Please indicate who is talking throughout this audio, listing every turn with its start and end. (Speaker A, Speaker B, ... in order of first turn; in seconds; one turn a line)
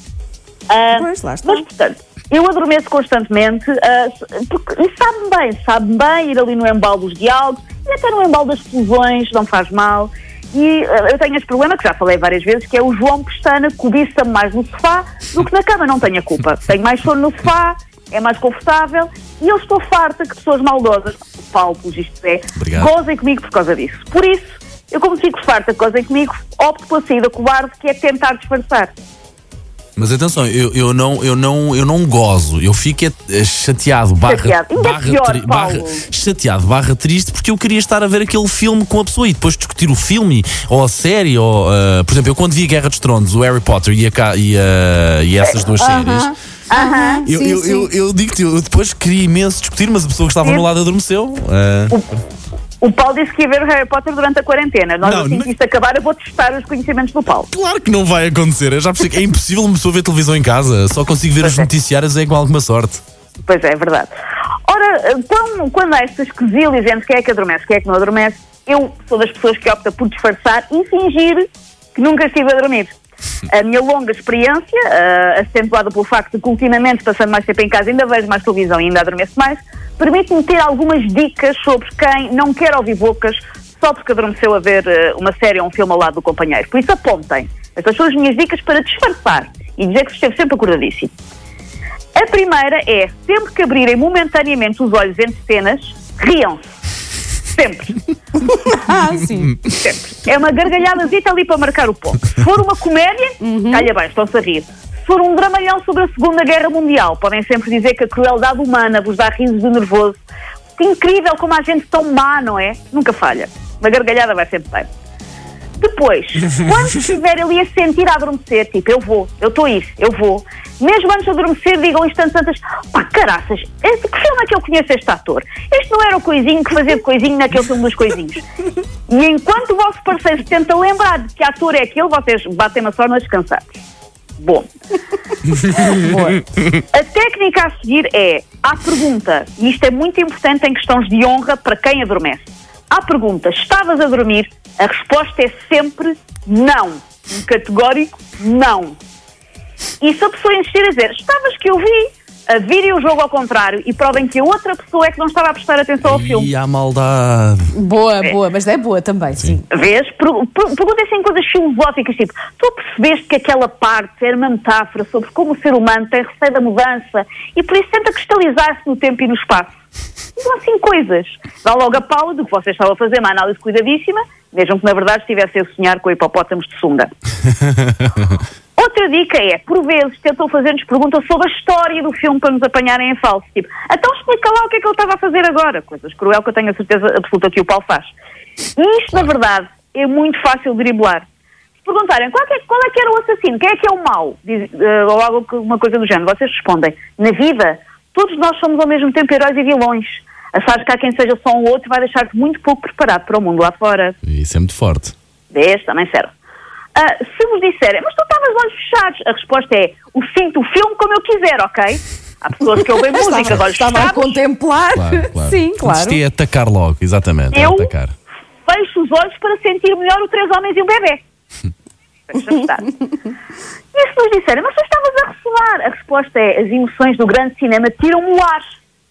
Speaker A: 0.7-28.9
Speaker B: 0.9-1.6
Speaker C: 22.6-22.9
Speaker C: 30.0-46.3
Speaker A: 34.3-36.0
Speaker B: 45.8-47.9
Speaker A: 46.7-47.2
Speaker C: 47.3-51.9
Speaker A: 50.4-50.7
Speaker A: 51.9-52.2
Speaker A: 52.8-57.5
Speaker C: 55.0-55.5
Speaker C: 57.5-63.0
Speaker A: 61.4-61.7
Speaker A: 63.5-64.1
Speaker A: 64.7-72.9
Speaker A: 73.5-91.1
Speaker A: 92.2-96.6
Speaker A: 97.5-98.0
Speaker B: 98.5-99.6
Speaker A: 99.7-110.2
Speaker B: 103.4-103.9
Speaker A: 110.8-114.9
Speaker A: 115.8-128.4
Speaker A: 129.1-133.8
Speaker A: 134.4-134.7
Speaker A: 135.6-149.0
Speaker A: 150.0-156.5
Speaker C: 156.0-157.7
Speaker B: 157.7-159.6
Speaker A: 159.7-169.7
Speaker A: 170.4-177.1
Speaker A: 178.8-188.1
Speaker A: 188.8-191.2
Speaker A: 191.8-204.2
Speaker C: 204.2-205.1
Speaker A: 205.5-206.3
Speaker A: 206.9-214.4
Speaker B: 213.1-216.2
Speaker C: 214.9-218.1
Speaker A: 217.5-217.9
Speaker A: 218.7-221.2
Speaker A: 222.3-222.9
Speaker A: 223.9-228.6